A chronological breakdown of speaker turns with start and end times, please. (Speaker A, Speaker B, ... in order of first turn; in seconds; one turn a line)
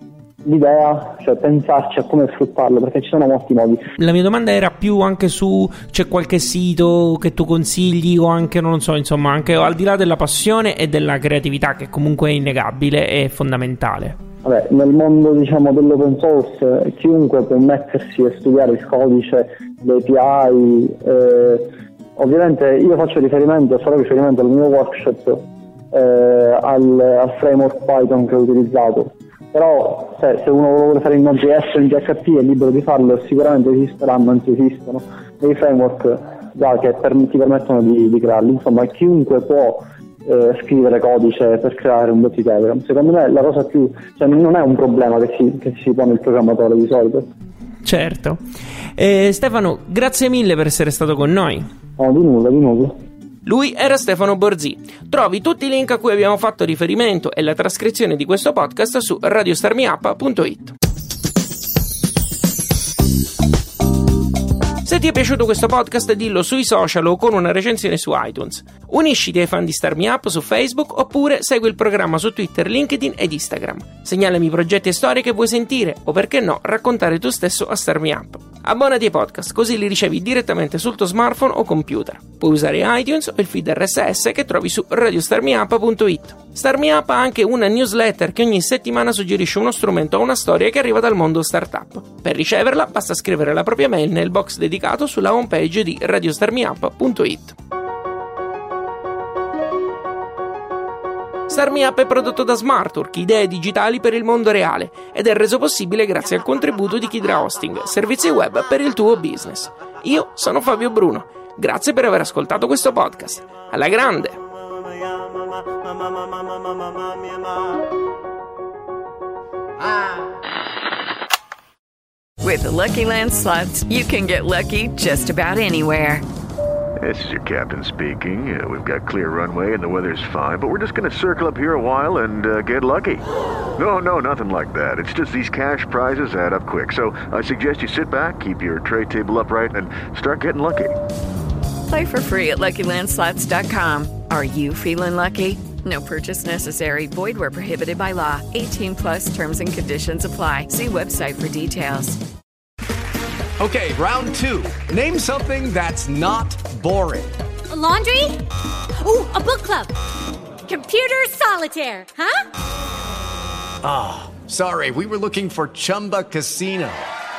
Speaker A: 0.5-3.9
Speaker B: 4.0-14.2
Speaker A: 14.4-47.3
Speaker B: 47.8-48.4
Speaker B: 49.0-51.7
Speaker A: 52.0-53.0
Speaker B: 53.5-60.7
Speaker B: 64.8-97.6
Speaker B: 101.5-114.4
Speaker C: 122.4-126.2
Speaker D: 127.0-133.2
Speaker D: 133.8-140.9
Speaker C: 141.9-152.2
Speaker E: 153.6-157.3
Speaker F: 157.7-158.4
Speaker F: 159.0-159.9
Speaker F: 160.7-162.4
Speaker E: 163.8-167.1